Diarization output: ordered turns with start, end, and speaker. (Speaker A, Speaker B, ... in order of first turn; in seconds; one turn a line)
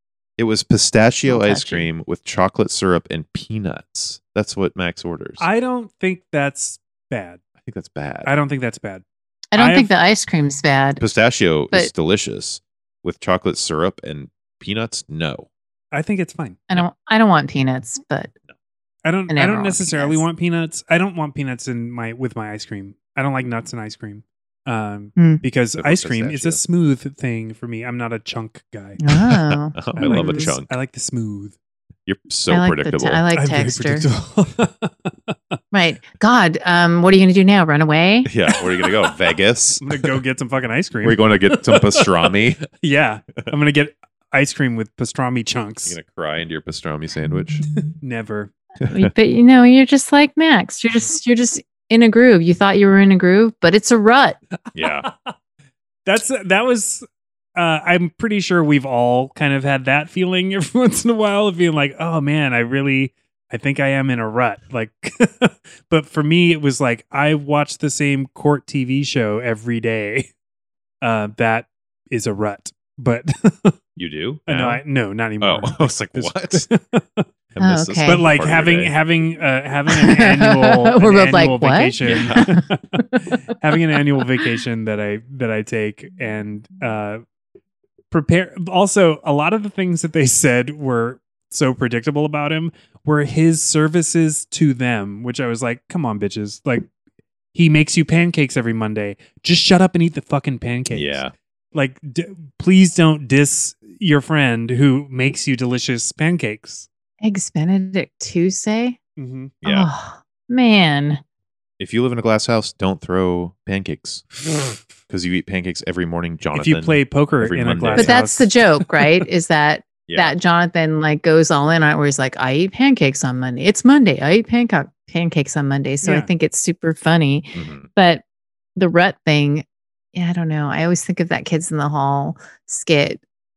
Speaker A: 0.4-5.4
Speaker B: 1.2-1.9
Speaker C: 5.4-7.4
Speaker A: 7.6-8.3
Speaker C: 8.2-9.0
Speaker B: 9.5-11.0
Speaker C: 9.6-9.9
Speaker A: 11.0-15.5
Speaker C: 15.9-16.6
Speaker B: 16.7-18.3
Speaker C: 19.0-29.1
Speaker B: 19.3-20.2
Speaker B: 25.2-25.4
Speaker A: 25.8-26.6
Speaker B: 29.0-30.5
Speaker A: 29.7-30.7
Speaker C: 29.9-31.6
Speaker A: 32.0-33.2
Speaker B: 32.5-34.0
Speaker C: 33.3-35.4
Speaker B: 35.7-38.3
Speaker A: 38.2-40.1
Speaker C: 39.8-46.0
Speaker A: 41.0-42.6
Speaker A: 45.9-47.6
Speaker C: 47.9-48.5
Speaker A: 48.8-49.1
Speaker B: 48.9-54.4
Speaker A: 54.7-55.1
Speaker C: 54.8-55.3
Speaker C: 56.0-57.0
Speaker C: 57.5-70.3
Speaker C: 71.0-73.8
Speaker A: 74.0-74.8
Speaker C: 74.5-77.2
Speaker A: 75.4-76.7
Speaker A: 77.5-78.9
Speaker B: 77.6-78.3
Speaker C: 78.0-87.2
Speaker B: 79.9-83.2
Speaker A: 82.0-82.5
Speaker C: 88.1-96.8
Speaker C: 97.5-106.9
Speaker A: 100.9-101.3
Speaker B: 107.2-109.0
Speaker C: 109.2-109.5
Speaker A: 109.6-109.9
Speaker B: 109.6-111.2
Speaker A: 111.8-114.2
Speaker A: 115.1-118.2
Speaker C: 116.5-119.0
Speaker B: 117.9-128.2
Speaker A: 120.1-120.3
Speaker C: 126.0-126.3
Speaker A: 127.5-127.9
Speaker B: 128.8-133.2